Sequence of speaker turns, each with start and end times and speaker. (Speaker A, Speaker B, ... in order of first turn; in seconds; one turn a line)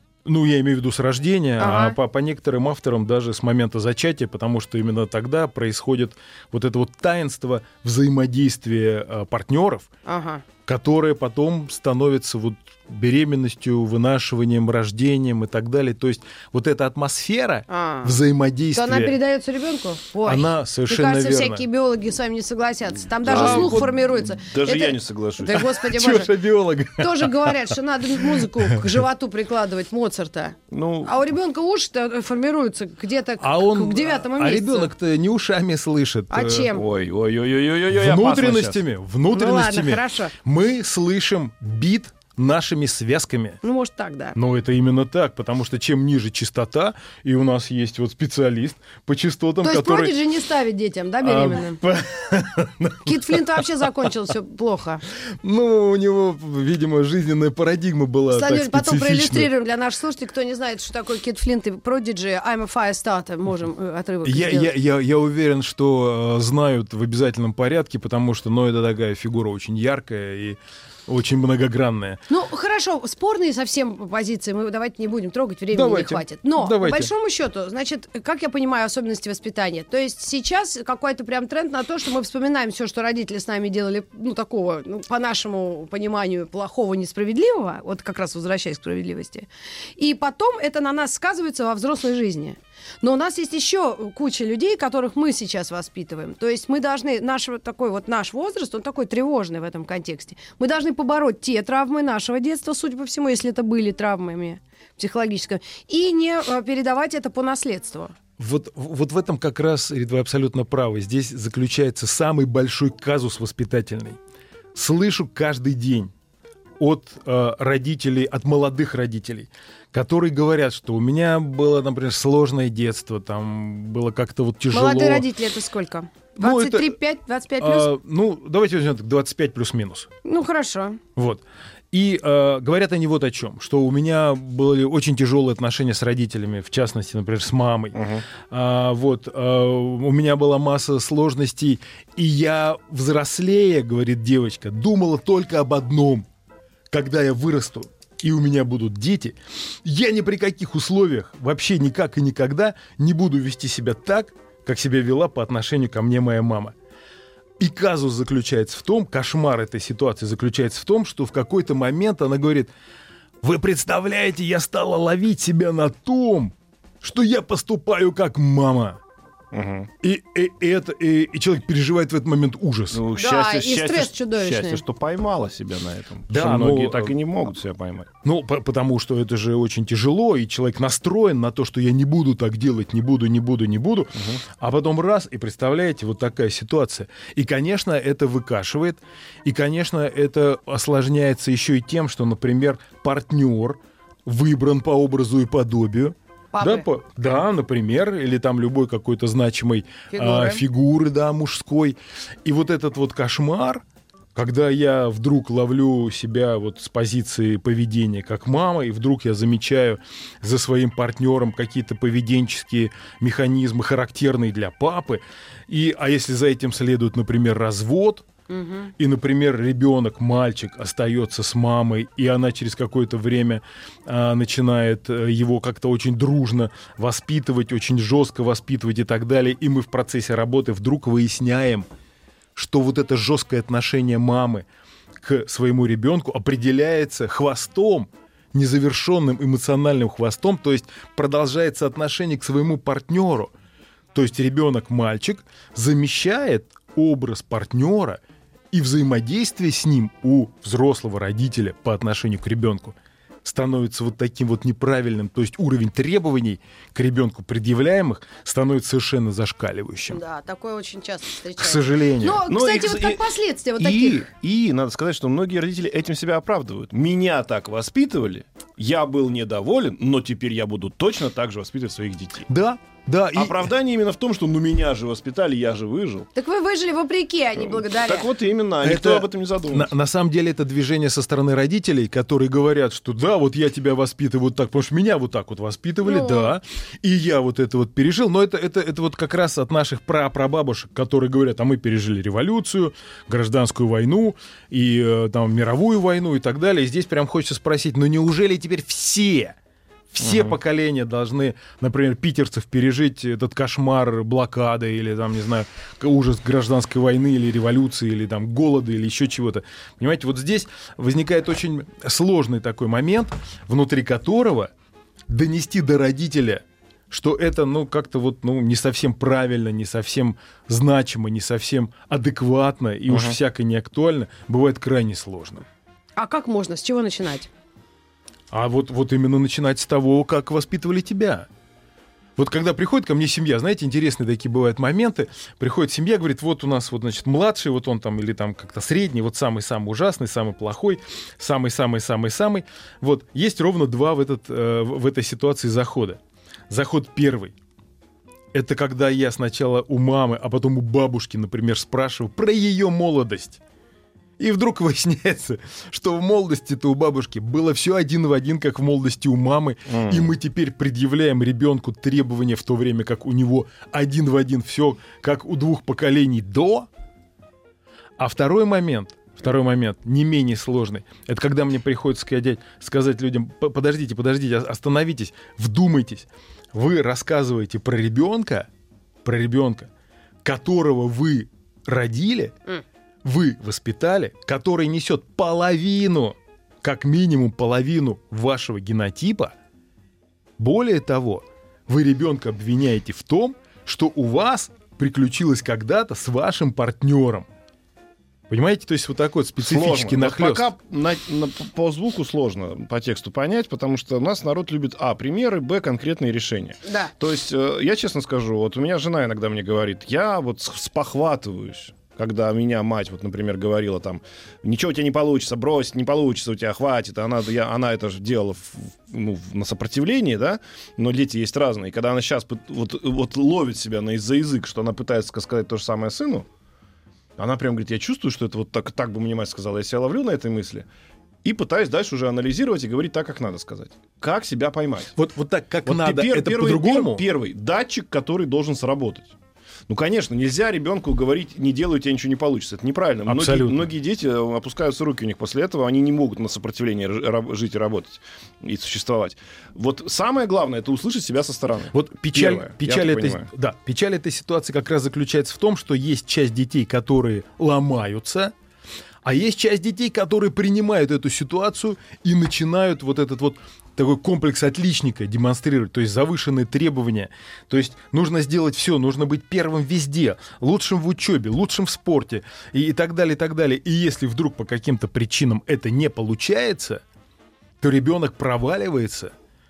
Speaker A: 0.2-9.9
Speaker B: 1.6-2.0
Speaker B: 10.1-10.4
Speaker A: 10.7-19.1
Speaker B: 17.7-18.2
Speaker B: 18.7-26.3
Speaker A: 20.2-21.6
Speaker C: 23.2-25.7
Speaker A: 23.3-24.0
Speaker A: 25.8-28.8
Speaker B: 27.0-34.9
Speaker C: 30.7-31.1
Speaker A: 33.4-36.7
Speaker B: 36.3-36.8
Speaker C: 36.8-38.8
Speaker A: 37.9-43.6
Speaker B: 39.3-40.3
Speaker B: 43.6-44.4
Speaker A: 44.4-50.1
Speaker B: 49.6-51.8
Speaker A: 51.2-53.7
Speaker B: 53.0-55.0
Speaker A: 55.3-59.5
Speaker B: 58.3-64.7
Speaker A: 64.2-72.2
Speaker B: 72.3-108.2
Speaker A: 75.7-77.1
Speaker A: 108.4-114.2
Speaker A: 114.8-116.1
Speaker A: 116.8-125.3
Speaker B: 124.7-127.9
Speaker A: 126.4-127.0
Speaker A: 127.6-130.1
Speaker B: 130.2-131.0
Speaker A: 131.2-138.0
Speaker C: 137.9-138.2
Speaker A: 138.5-146.2
Speaker A: 146.9-156.7
Speaker A: 157.6-162.7
Speaker A: 163.4-169.0
Speaker C: 169.5-169.9
Speaker A: 170.0-173.0
Speaker C: 172.9-178.1
Speaker B: 173.2-174.8
Speaker A: 176.3-177.1
Speaker A: 178.2-203.8
Speaker B: 196.5-196.9
Speaker B: 200.1-200.6
Speaker A: 204.3-218.3
Speaker B: 218.5-218.9
Speaker A: 219.0-231.9
Speaker A: 232.6-234.7
Speaker A: 235.2-243.5
Speaker A: 244.1-248.2
Speaker A: 248.7-260.2
Speaker B: 260.1-264.3
Speaker A: 261.6-262.4
Speaker C: 262.5-263.2
Speaker A: 263.8-264.3
Speaker C: 264.2-272.5
Speaker A: 272.5-273.7
Speaker C: 273.4-276.3
Speaker B: 276.4-278.3
Speaker C: 277.6-279.9
Speaker A: 278.8-299.6
Speaker B: 286.0-286.5
Speaker A: 300.1-314.7
Speaker C: 300.2-300.6
Speaker A: 315.3-325.6
Speaker C: 323.1-323.4
Speaker B: 326.2-327.5
Speaker A: 328.5-331.5
Speaker A: 332.4-347.6
Speaker A: 348.5-353.6
Speaker A: 354.4-366.9
Speaker C: 359.9-360.3
Speaker A: 368.2-378.7
Speaker A: 379.2-379.9
Speaker A: 380.4-382.6
Speaker A: 383.2-389.5
Speaker A: 390.6-397.5
Speaker A: 398.5-400.7
Speaker C: 399.6-426.5
Speaker B: 406.9-407.1
Speaker C: 427.4-430.9
Speaker C: 431.4-435.1
Speaker A: 435.2-437.2
Speaker C: 435.9-439.4
Speaker C: 439.9-453.5
Speaker A: 443.3-443.9
Speaker A: 451.9-458.5
Speaker A: 459.2-477.0
Speaker A: 477.8-479.3